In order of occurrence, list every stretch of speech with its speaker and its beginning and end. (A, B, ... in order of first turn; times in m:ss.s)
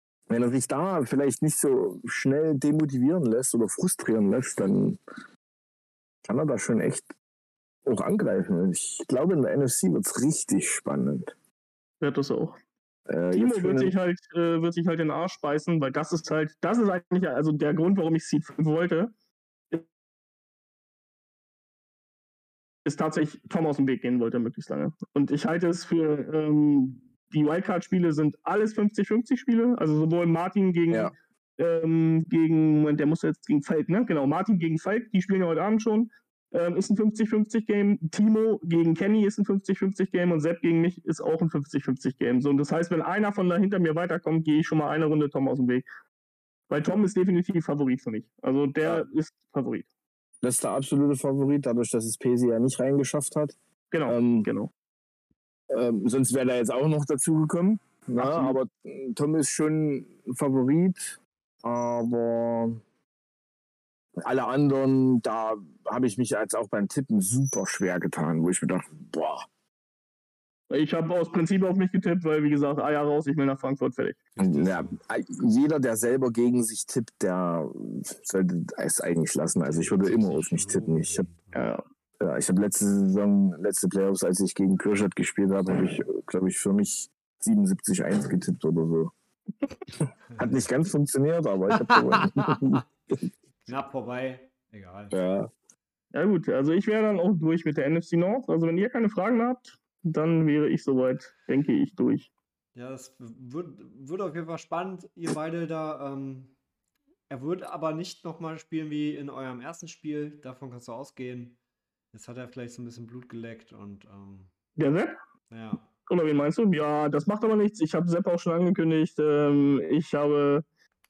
0:00.3-0:05.0 A
0:06.2-0:07.1 A
0:07.9-0:11.4 A
0:12.0-0:12.6 B
0:13.1-0:13.9 A
0:13.3-0:19.1 B
0:22.9-0:45.8 B
0:46.7-0:49.9 B
0:50.4-0:53.6 A
0:53.9-0:54.7 B
0:54.1-0:54.5 A
0:55.7-1:02.8 A
0:58.2-0:58.6 B
1:04.2-1:09.5 A
1:10.7-1:14.2 B
1:14.4-1:15.0 C
1:14.4-1:21.3 A
1:19.6-1:21.7 C
1:21.5-1:21.8 B
1:22.2-1:29.1 A
1:30.4-1:32.8 A
1:31.9-1:32.6 C
1:33.7-1:35.2 C
1:35.1-1:35.5 A
1:36.1-1:42.3 B
1:42.8-1:46.5 C
1:47.3-1:51.6 C
1:52.1-1:54.5 C
1:54.8-1:55.2 B
1:55.5-1:55.9 C
1:56.1-2:00.6 B